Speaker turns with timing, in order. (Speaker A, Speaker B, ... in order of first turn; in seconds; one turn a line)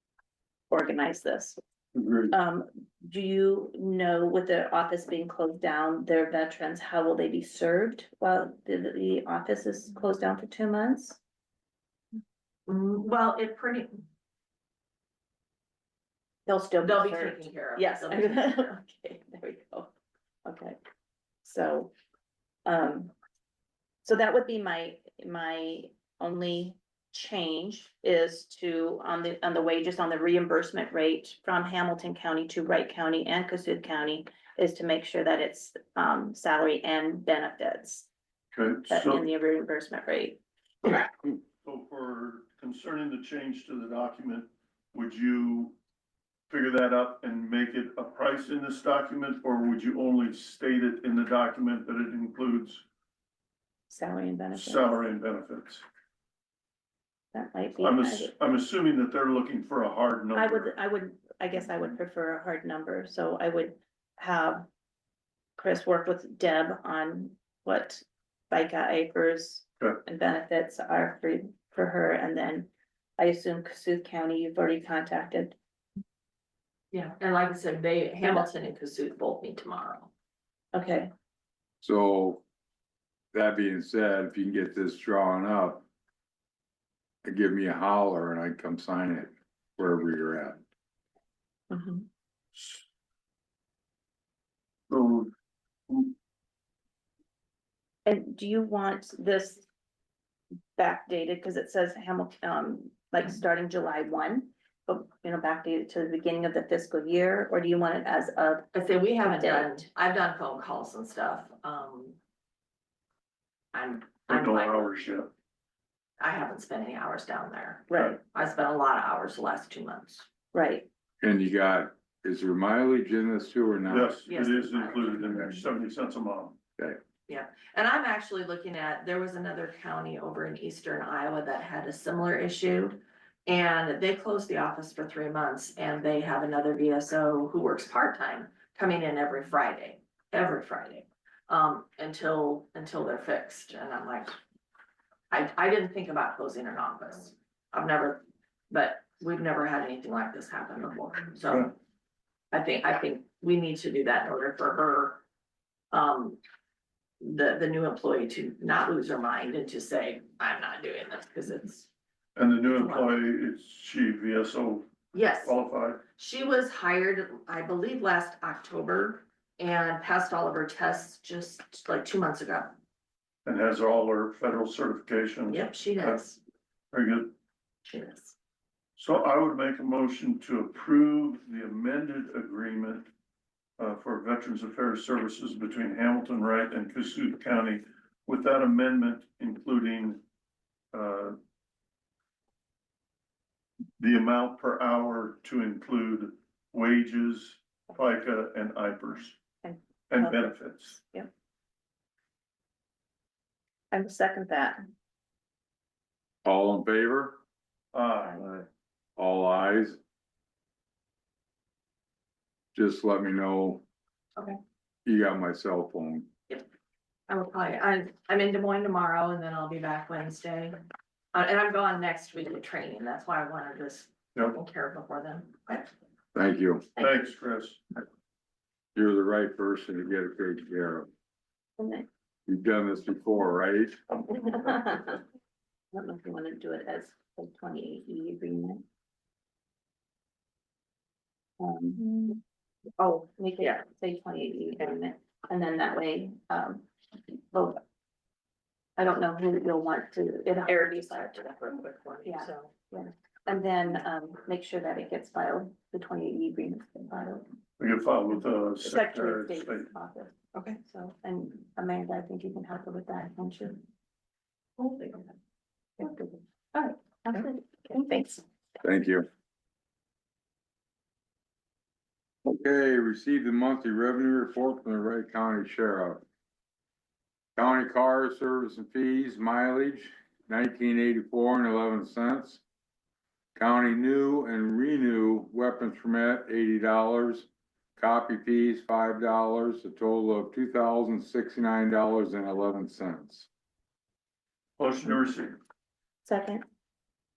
Speaker A: 0.7-1.6
Speaker B: 1.9-2.4
Speaker A: 2.3-11.2
Speaker C: 12.7-14.0
Speaker A: 16.5-19.9
Speaker C: 16.8-18.8
Speaker A: 20.4-20.8
Speaker A: 21.4-21.9
Speaker A: 22.7-23.1
Speaker A: 24.0-38.1
Speaker B: 38.5-39.3
Speaker A: 38.9-40.4
Speaker B: 41.6-45.8
Speaker B: 46.5-52.8
Speaker A: 53.9-55.0
Speaker B: 54.5-55.8
Speaker A: 57.3-58.3
Speaker B: 57.8-60.8
Speaker A: 60.3-64.7
Speaker A: 65.6-75.6
Speaker C: 76.9-80.1
Speaker A: 80.7-81.1
Speaker D: 81.8-82.4
Speaker D: 83.3-85.8
Speaker D: 87.2-90.6
Speaker A: 91.7-92.0
Speaker B: 92.5-92.8
Speaker B: 94.9-95.3
Speaker B: 95.9-96.1
Speaker A: 98.0-99.7
Speaker A: 100.8-108.7
Speaker C: 108.7-112.2
Speaker A: 109.2-109.8
Speaker C: 113.7-114.9
Speaker B: 114.3-115.3
Speaker C: 116.2-120.3
Speaker A: 117.9-118.2
Speaker A: 120.5-120.9
Speaker D: 121.2-124.2
Speaker B: 123.9-126.6
Speaker C: 124.3-125.6
Speaker C: 127.3-144.4
Speaker C: 145.3-151.7
Speaker C: 152.5-155.2
Speaker C: 155.9-156.4
Speaker C: 157.2-161.9
Speaker B: 162.4-164.9
Speaker C: 162.7-163.1
Speaker C: 165.1-165.6
Speaker B: 165.4-166.0
Speaker C: 166.2-172.8
Speaker B: 173.4-176.2
Speaker C: 175.5-176.4
Speaker B: 176.9-177.3
Speaker C: 177.9-178.3
Speaker B: 179.0-183.1
Speaker B: 183.8-190.2
Speaker B: 190.9-191.4
Speaker B: 194.0-199.4
Speaker A: 199.6-201.3
Speaker B: 200.1-201.0
Speaker A: 203.9-204.8
Speaker D: 206.4-207.4
Speaker B: 207.9-208.7
Speaker D: 209.2-210.0
Speaker D: 212.7-213.8
Speaker D: 215.1-216.3
Speaker C: 217.3-220.8
Speaker C: 221.3-225.9
Speaker D: 226.3-226.9
Speaker B: 227.0-227.8
Speaker D: 228.9-231.1
Speaker A: 231.8-232.1
Speaker D: 232.5-234.0
Speaker A: 234.3-235.2
Speaker A: 235.9-238.8
Speaker A: 241.6-242.0
Speaker C: 242.0-242.4
Speaker A: 243.0-246.9
Speaker A: 247.5-247.8
Speaker A: 249.0-251.3
Speaker C: 250.7-252.7
Speaker A: 252.2-257.5
Speaker B: 257.8-259.9
Speaker A: 258.8-263.8
Speaker A: 264.9-265.3
Speaker A: 266.0-268.4
Speaker D: 268.8-269.3
Speaker D: 272.4-276.2
Speaker D: 277.6-282.6
Speaker D: 283.6-293.5
Speaker B: 294.8-295.6
Speaker A: 296.2-296.6